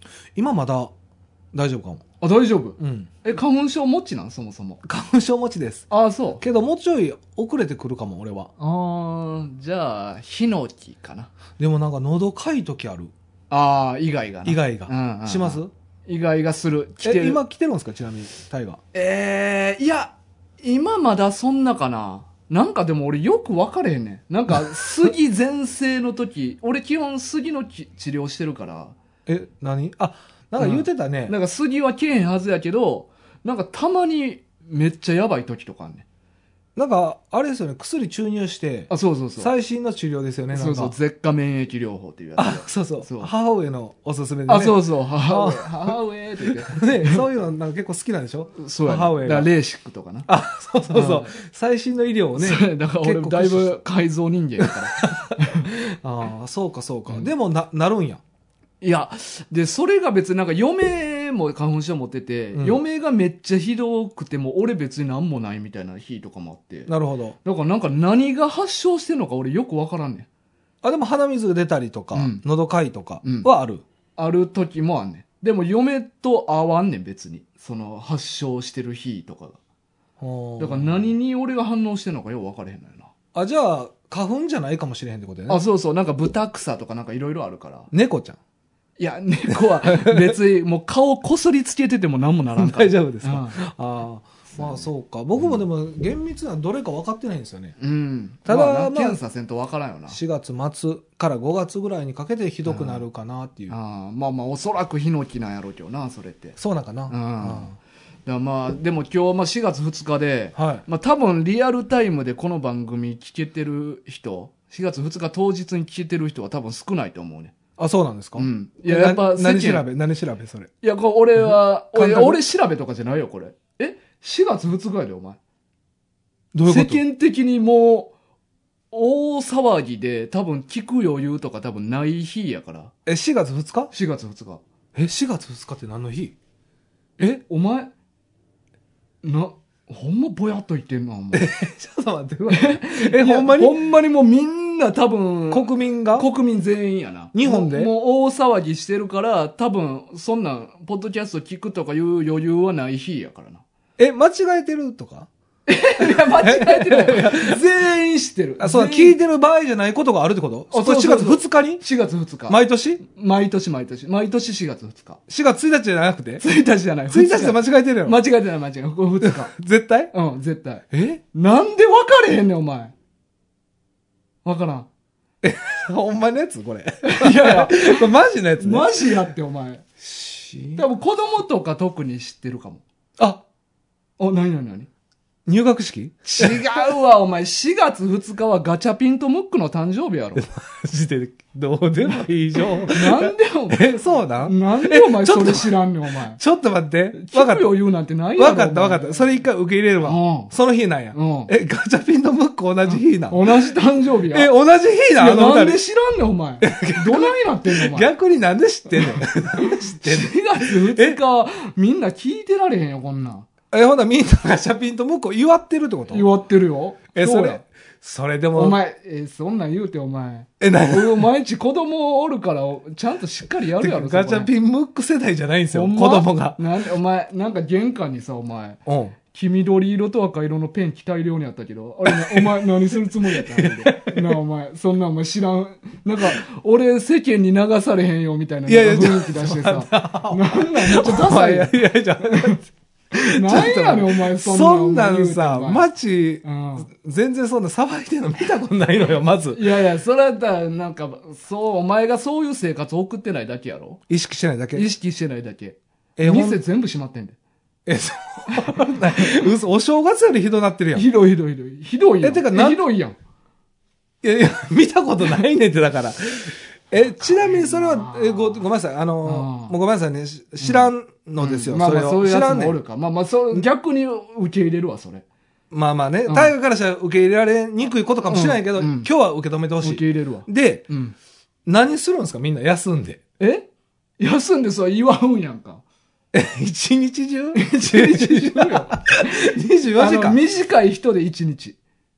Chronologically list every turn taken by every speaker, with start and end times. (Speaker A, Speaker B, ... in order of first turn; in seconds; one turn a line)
Speaker A: 0.3-0.9
Speaker A: 1.5-2.0
Speaker B: 2.2-4.8
Speaker A: 2.8-3.1
Speaker A: 4.8-5.8
Speaker B: 5.9-6.4
Speaker A: 6.4-8.5
Speaker B: 8.6-11.3
Speaker A: 11.6-13.1
Speaker B: 13.5-17.4
Speaker A: 14.4-15.7
Speaker A: 17.0-18.8
Speaker B: 18.9-28.9
Speaker A: 29.2-31.3
Speaker B: 30.6-36.0
Speaker A: 36.8-40.9
Speaker B: 38.9-39.5
Speaker B: 40.5-43.3
Speaker A: 42.4-49.5
Speaker B: 44.5-47.2
Speaker B: 48.5-50.3
Speaker A: 50.2-53.8
Speaker B: 50.9-51.3
Speaker B: 52.4-55.7
Speaker A: 54.6-58.2
Speaker B: 58.8-66.9
Speaker A: 62.5-62.8
Speaker A: 66.9-67.3
Speaker B: 67.4-70.3
Speaker A: 70.8-73.8
Speaker B: 72.1-72.4
Speaker B: 73.2-73.5
Speaker B: 74.2-79.6
Speaker A: 80.2-81.1
Speaker B: 80.6-83.1
Speaker A: 83.3-85.6
Speaker B: 85.5-87.9
Speaker A: 87.9-88.4
Speaker B: 89.0-93.6
Speaker A: 89.5-90.4
Speaker A: 92.5-97.7
Speaker B: 94.5-95.6
Speaker B: 97.8-100.2
Speaker A: 98.5-99.2
Speaker A: 100.1-103.7
Speaker B: 102.6-103.0
Speaker B: 103.7-106.6
Speaker A: 106.6-107.7
Speaker B: 107.1-107.7
Speaker B: 108.2-117.5
Speaker A: 110.5-110.8
Speaker A: 117.8-120.7
Speaker B: 118.4-119.8
Speaker B: 120.8-125.4
Speaker A: 121.4-122.4
Speaker A: 126.5-127.0
Speaker B: 126.7-128.1
Speaker B: 128.9-132.9
Speaker A: 133.1-133.9
Speaker B: 133.9-134.6
Speaker A: 134.9-136.3
Speaker B: 137.4-137.9
Speaker B: 139.2-141.5
Speaker A: 141.3-143.7
Speaker B: 142.5-153.6
Speaker A: 145.5-146.3
Speaker A: 147.3-147.9
Speaker A: 154.0-155.3
Speaker B: 155.7-159.2
Speaker A: 156.0-157.6
Speaker A: 158.6-161.8
Speaker B: 160.7-165.2
Speaker A: 162.5-163.0
Speaker A: 165.3-166.4
Speaker B: 166.4-169.5
Speaker A: 167.1-168.2
Speaker A: 169.2-170.1
Speaker B: 170.1-172.9
Speaker A: 170.9-171.2
Speaker B: 174.4-174.9
Speaker A: 175.4-179.3
Speaker B: 177.0-179.8
Speaker A: 180.0-180.8
Speaker B: 180.8-182.8
Speaker B: 184.2-184.9
Speaker A: 185.5-186.8
Speaker B: 186.2-190.4
Speaker A: 190.3-195.7
Speaker B: 192.9-193.8
Speaker B: 194.4-196.4
Speaker A: 196.3-197.7
Speaker B: 197.1-199.3
Speaker A: 198.4-203.5
Speaker B: 200.0-200.5
Speaker B: 201.1-201.5
Speaker B: 202.8-204.5
Speaker A: 204.3-205.8
Speaker B: 205.2-208.1
Speaker A: 206.6-211.2
Speaker B: 208.9-213.5
Speaker A: 213.7-216.3
Speaker B: 216.1-217.6
Speaker A: 217.1-218.8
Speaker B: 218.5-224.5
Speaker A: 220.6-221.3
Speaker A: 223.8-226.6
Speaker B: 225.7-242.6
Speaker A: 228.8-229.1
Speaker A: 232.1-234.4
Speaker A: 238.7-249.6
Speaker B: 243.2-245.8
Speaker B: 246.4-246.9
Speaker B: 249.5-254.0
Speaker A: 254.1-254.9
Speaker B: 254.7-257.3
Speaker A: 256.2-256.6
Speaker A: 257.9-261.1
Speaker B: 258.5-259.4
Speaker B: 260.9-263.1
Speaker A: 262.2-262.8
Speaker A: 264.2-272.8
Speaker B: 267.2-268.6
Speaker B: 269.2-269.7
Speaker B: 270.6-275.2
Speaker A: 275.7-280.9
Speaker B: 276.3-276.5
Speaker B: 278.3-279.1
Speaker B: 279.8-281.1
Speaker A: 281.6-283.2
Speaker B: 283.4-283.6
Speaker B: 284.2-285.8
Speaker A: 286.3-290.4
Speaker B: 287.5-291.8